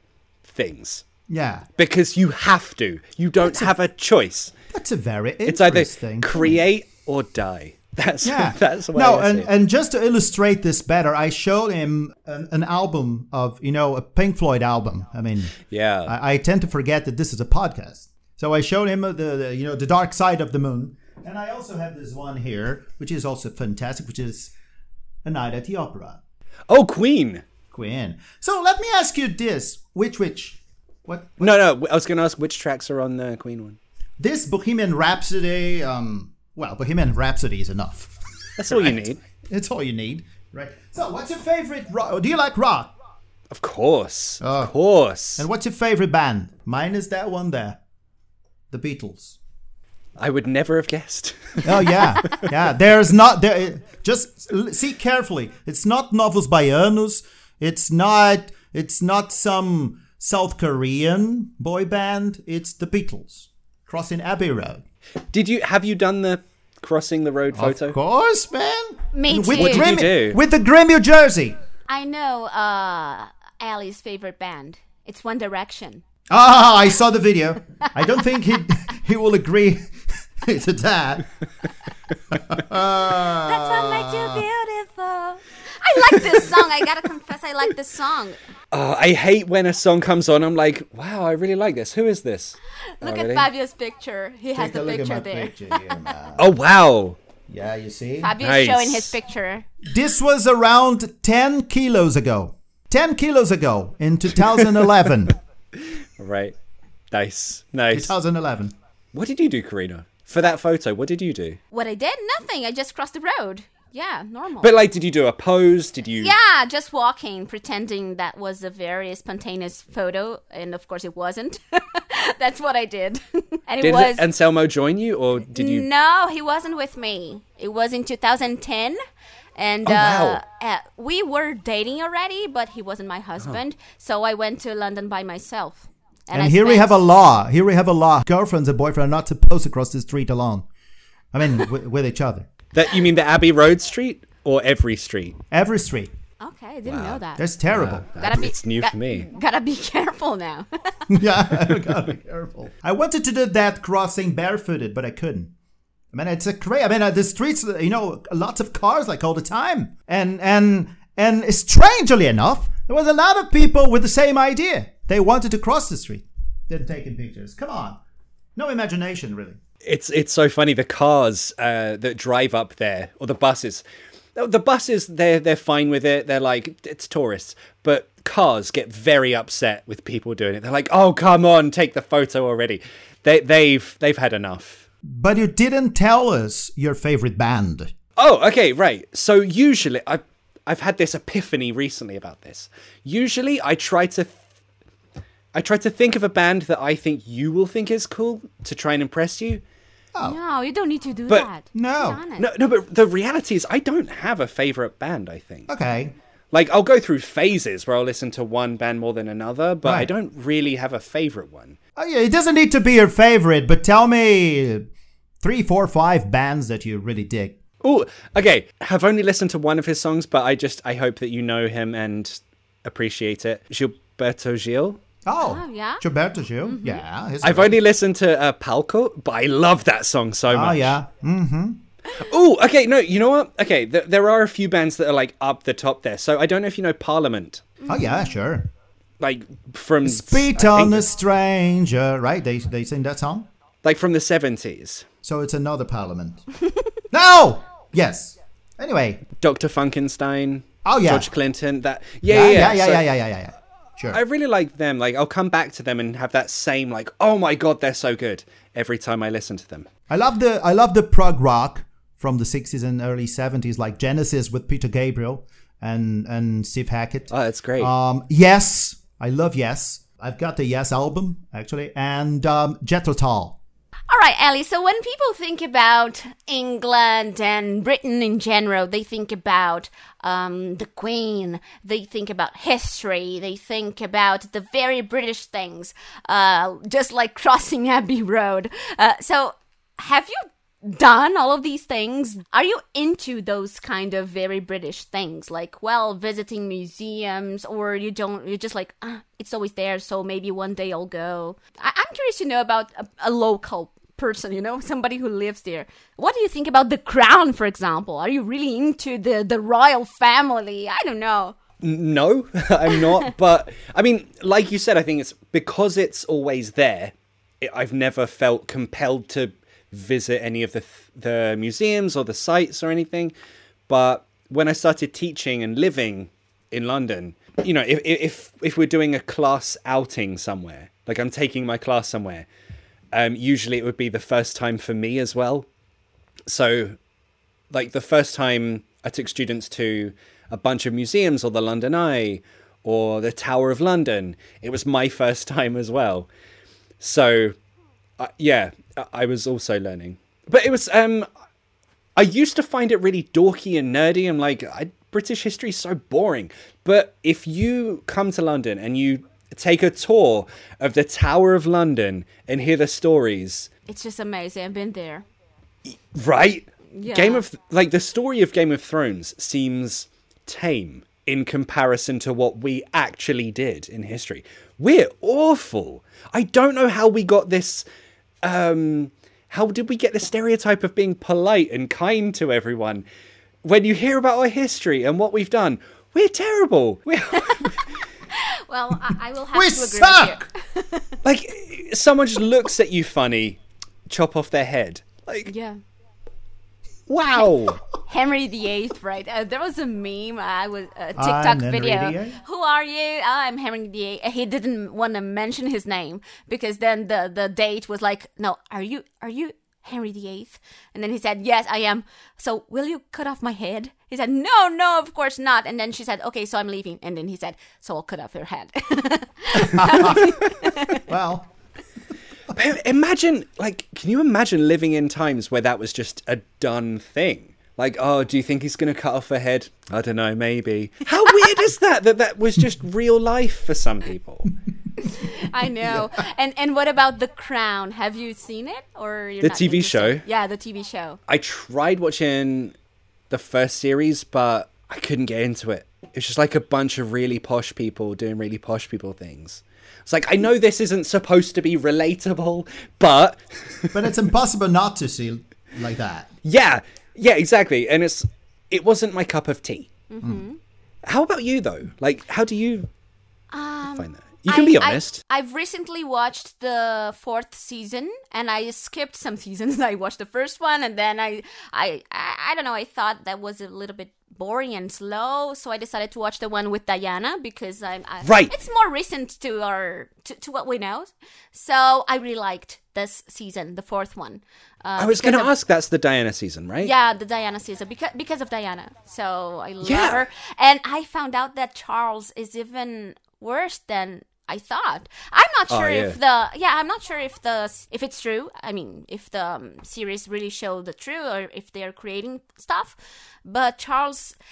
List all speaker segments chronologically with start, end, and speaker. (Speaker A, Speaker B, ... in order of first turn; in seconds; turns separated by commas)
Speaker A: 0.4-1.0, Speaker B: 1.3-1.6, Speaker A: 1.8-4.5, Speaker B: 4.7-6.6, Speaker A: 5.5-9.5, Speaker B: 8.2-24.5, Speaker A: 15.6-16.1, Speaker B: 25.2-26.2, Speaker A: 26.7-27.4, Speaker B: 27.7-31.6, Speaker A: 31.4-33.8, Speaker B: 34.2-42.9, Speaker A: 38.6-39.2, Speaker A: 43.5-45.5, Speaker B: 44.4-44.7, Speaker B: 45.4-47.8, Speaker B: 48.7-49.4, Speaker A: 50.2-52.0, Speaker B: 51.6-64.8, Speaker A: 65.3-68.0, Speaker B: 67.5-71.5, Speaker C: 69.1-69.9, Speaker A: 69.5-70.4, Speaker C: 71.9-76.0, Speaker B: 76.3-81.3, Speaker B: 82.3-84.4, Speaker C: 83.2-88.4, Speaker A: 88.7-93.5, Speaker C: 93.0-95.9, Speaker B: 94.5-96.5, Speaker A: 96.4-97.2, Speaker B: 97.5-98.3, Speaker C: 98.2-99.7, Speaker A: 98.4-99.2, Speaker B: 99.8-105.3, Speaker A: 105.8-106.5, Speaker A: 107.1-108.1, Speaker B: 107.9-108.7, Speaker A: 109.1-111.6, Speaker C: 111.7-114.7, Speaker A: 114.6-116.3, Speaker C: 116.2-124.2, Speaker A: 123.8-125.9, Speaker C: 125.5-129.0, Speaker C: 129.6-137.0, Speaker A: 129.8-130.4, Speaker B: 136.3-140.7, Speaker B: 141.3-142.5, Speaker A: 142.7-145.4, Speaker B: 145.5-146.1, Speaker C: 146.4-147.4, Speaker A: 146.8-149.3, Speaker B: 147.3-148.1, Speaker C: 148.2-151.1, Speaker B: 151.1-155.5, Speaker A: 151.5-152.0, Speaker B: 156.1-168.0, Speaker B: 168.6-169.6, Speaker A: 169.8-173.8, Speaker A: 174.3-184.8, Speaker B: 185.0-187.9, Speaker A: 188.2-194.4, Speaker A: 195.5-199.6, Speaker C: 200.2-202.5, Speaker B: 201.7-202.2, Speaker A: 202.4-205.7, Speaker B: 205.7-206.1, Speaker A: 206.5-211.8, Speaker B: 209.8-210.1, Speaker B: 211.9-214.8, Speaker B: 215.4-217.6, Speaker A: 217.8-225.0, Speaker B: 225.2-227.8, Speaker C: 225.4-226.0, Speaker C: 226.6-227.0, Speaker A: 227.4-231.0, Speaker B: 230.5-231.8, Speaker A: 232.1-237.7, Speaker C: 237.8-238.2, Speaker B: 237.9-238.7, Speaker A: 239.2-241.1, Speaker B: 240.0-243.5, Speaker A: 243.8-245.1, Speaker B: 245.2-246.4, Speaker B: 247.1-249.2, Speaker A: 249.4-253.1, Speaker B: 250.8-251.3, Speaker B: 252.3-254.2, Speaker A: 254.1-259.9, Speaker B: 260.1-273.6, Speaker A: 267.3-267.9, Speaker C: 274.1-311.6, Speaker A: 311.8-323.3, Speaker A: 323.9-332.5, Speaker A: 333.1-335.7, Speaker A: 336.5-337.0, Speaker A: 337.7-346.3, Speaker A: 347.0-347.6, Speaker A: 348.2-351.3, Speaker A: 352.1-363.7, Speaker C: 363.9-365.2, Speaker A: 365.9-377.9, Speaker C: 366.9-367.4, Speaker A: 378.4-383.1, Speaker A: 383.6-387.9, Speaker C: 387.4-387.7, Speaker C: 388.3-391.2, Speaker B: 389.5-390.4, Speaker A: 391.2-395.5, Speaker C: 395.5-395.8, Speaker A: 397.1-397.8, Speaker C: 397.5-421.1, Speaker B: 401.2-402.4, Speaker B: 419.6-420.4, Speaker B: 420.9-421.5, Speaker A: 422.5-434.5, Speaker C: 435.0-441.2, Speaker A: 439.4-440.2, Speaker A: 441.3-442.7, Speaker A: 443.3-454.1, Speaker B: 453.9-456.3, Speaker A: 456.4-459.9, Speaker C: 460.1-460.6, Speaker A: 461.0-462.9, Speaker C: 463.5-485.5, Speaker A: 463.9-465.2, Speaker A: 478.2-478.5, Speaker A: 485.0-486.9, Speaker C: 486.8-504.4, Speaker A: 489.8-490.2, Speaker A: 495.7-496.2